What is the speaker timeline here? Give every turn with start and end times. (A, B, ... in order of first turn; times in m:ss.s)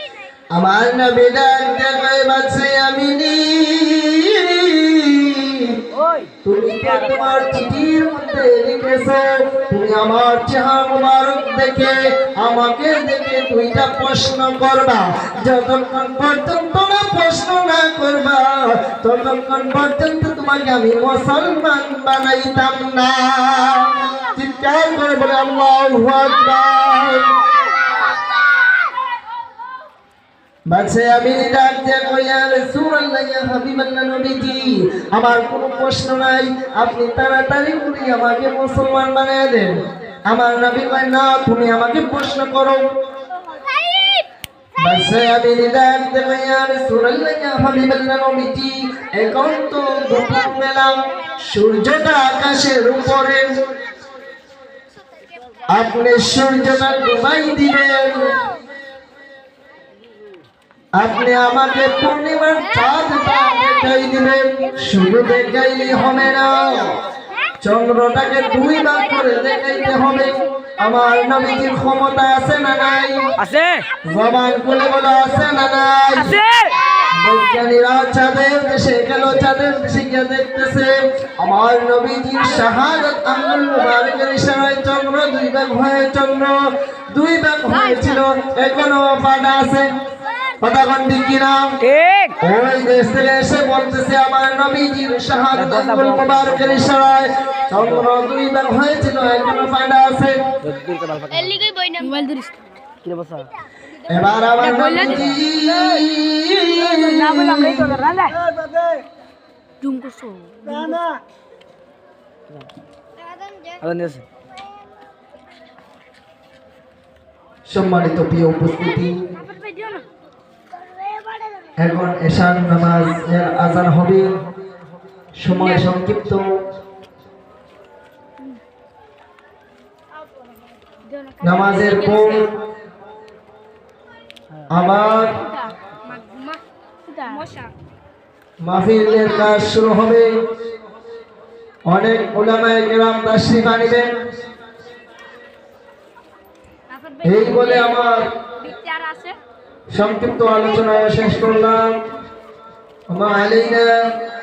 0:00.5-0:05.8 A
0:05.9-0:06.3 B
0:06.4-0:27.3 A
0:30.7-0:42.8 A
0:44.8-0:53.5 A
0:55.7-0:58.4 A
1:01.0-1:07.0 A
1:07.6-1:13.3 A
1:13.4-1:13.8 B
1:14.0-1:16.4 A
1:16.2-1:16.8 B
1:17.1-1:26.6 A
1:27.1-1:29.9 A
1:30.6-1:31.7 A
1:31.8-1:32.4 B
1:32.4-1:40.4 A
1:35.5-1:36.9 B
1:40.6-1:41.6 B
1:41.4-1:42.5 C
1:43.0-1:43.5 B
1:44.1-1:47.8 A
1:44.7-1:45.3 C
1:46.8-1:48.4 B
1:50.7-1:51.0 B
1:53.8-1:54.2 B
1:57.7-1:59.2 A
1:59.5-2:00.0 C
2:01.8-2:04.4 A
2:05.4-2:06.5 A
2:11.4-2:12.6 A
2:11.6-2:12.3 C
2:14.7-2:15.4 A
2:16.0-2:16.6 C
2:17.2-2:17.7 C
2:18.6-2:20.3 A
2:21.9-2:24.1 A
2:26.9-2:28.0 C
2:27.2-2:28.3 A
2:28.6-2:29.4 C
2:29.9-2:32.0 A
2:33.1-2:34.1 A